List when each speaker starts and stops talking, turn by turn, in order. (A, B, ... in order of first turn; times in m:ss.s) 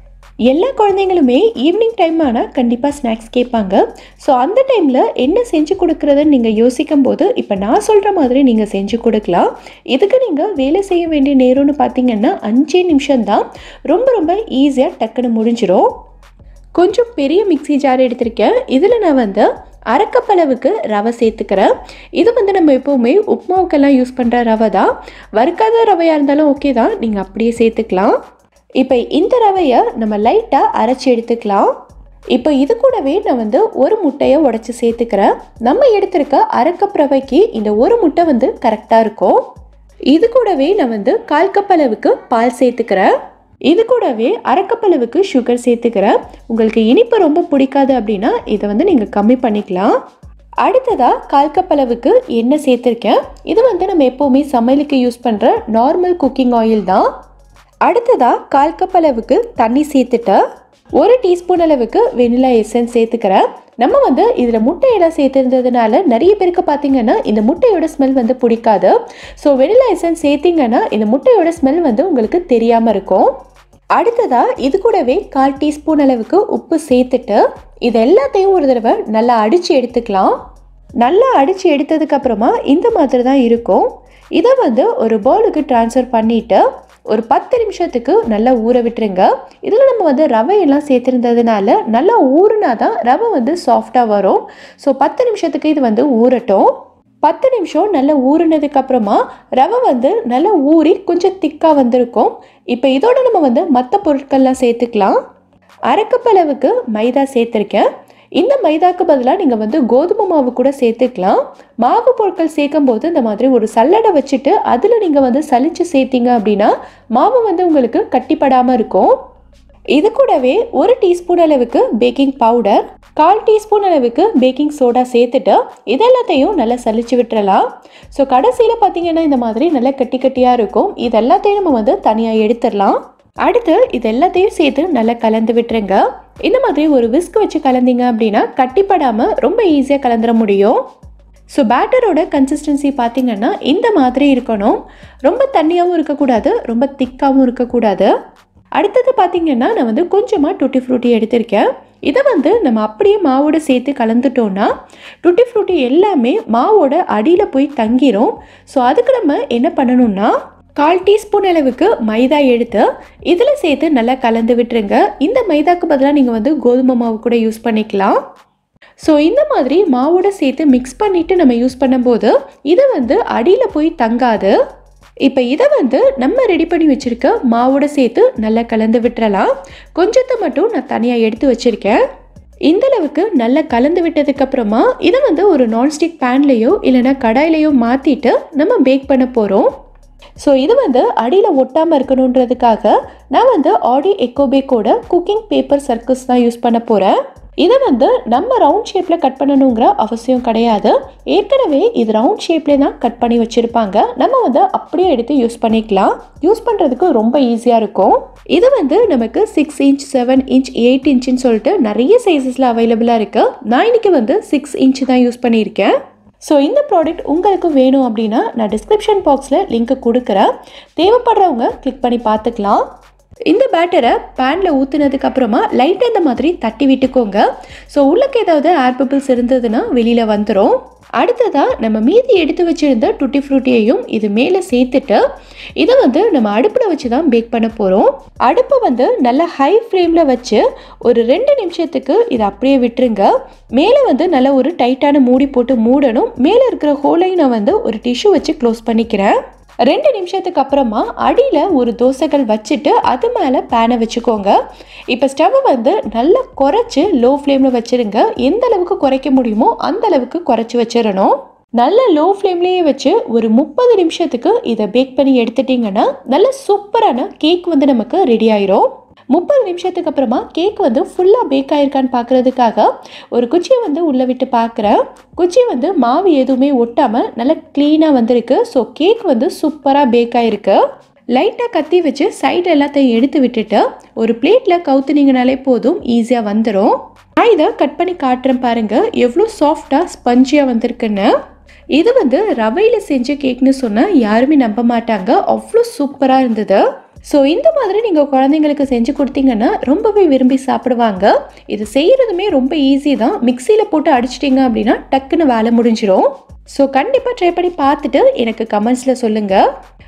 0:00.5-0:15.9 A
0:16.8-0:28.1 A
0:28.8-0:31.7 A
0:32.3-0:39.4 A
0:40.1-0:43.1 A
0:43.7-0:50.0 A
0:50.6-0:57.1 A
0:57.9-1:00.4 A
1:01.0-1:13.3 A
1:14.0-1:20.4 A
1:21.0-1:36.7 A
1:37.2-1:45.2 A
1:45.9-1:59.1 A
2:00.0-2:20.8 A
2:21.6-2:28.1 A
2:28.8-2:34.7 A
2:35.2-2:48.2 A
2:49.0-2:54.6 A
2:55.3-3:02.0 A
3:02.7-3:09.7 A
3:10.4-3:42.8 A
3:43.5-3:55.2 A
3:55.8-4:14.6 A
4:15.1-4:40.8 A
4:41.4-4:51.3 A
4:52.0-5:09.6 A